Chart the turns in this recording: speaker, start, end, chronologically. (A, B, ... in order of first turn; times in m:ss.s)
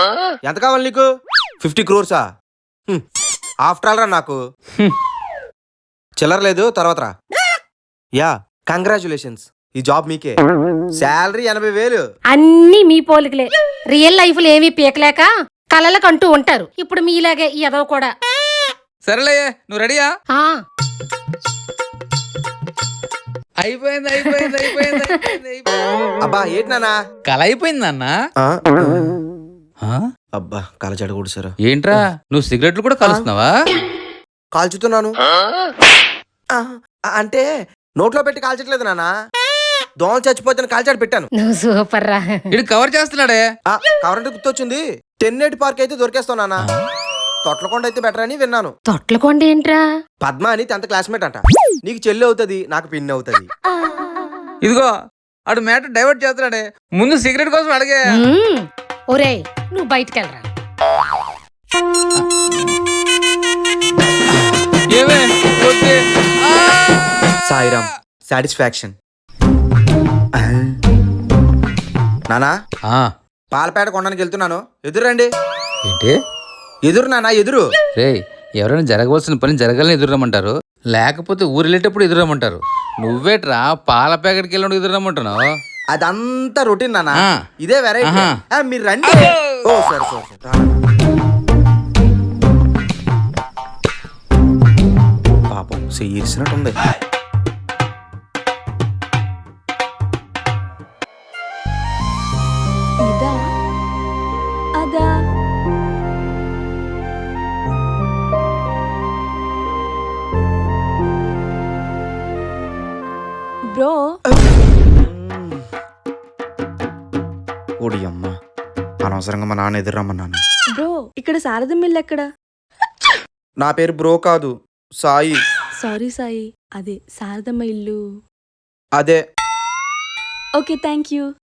0:00.5-0:01.0 A
0:01.6-0:02.2 A
0:03.7-0:04.4 A
0:06.2-0:07.1 A
0:08.2-0:10.4 A
0:11.0-0:12.0 A
0:12.3-0:18.1 B
0:19.0-0:20.1 C
0:20.3-0:20.6 B
0:23.6-0:25.7 C
0:24.4-0:25.0 B
0:26.2-0:27.0 A
0:27.2-0:28.1 C
0:28.4-0:29.1 A
0:30.4-0:32.0 A
0:31.7-0:33.5 C
0:34.5-0:35.2 A
0:36.5-0:37.4 A
0:38.0-0:39.1 A
0:40.0-0:41.3 A
0:41.4-0:42.5 B
0:42.5-0:43.4 C
0:43.7-0:46.6 A
0:47.4-0:48.7 A
0:48.9-0:49.8 B
0:50.2-0:53.5 A
0:54.6-0:54.9 C
0:55.5-0:58.0 C
0:58.1-1:00.4 B
1:02.2-1:02.8 C
1:04.3-1:04.7 A
1:04.9-1:07.0 C
1:07.4-1:09.0 A
1:10.3-1:10.8 A
1:12.9-1:13.1 C
1:13.5-1:15.3 A
1:15.9-1:16.2 C
1:16.9-1:17.6 A
1:18.0-1:25.4 C
1:25.9-1:30.8 A
1:28.0-1:28.3 C
1:29.0-1:29.6 C
1:35.5-1:36.8 A
1:43.1-1:43.4 D
1:44.8-1:45.1 D
1:53.7-1:54.0 D
1:55.0-1:55.7 A
1:57.8-1:58.3 A
1:59.0-2:00.4 A
2:00.8-2:02.2 D
2:03.6-2:05.4 A
2:05.8-2:08.0 D
2:10.6-2:11.3 D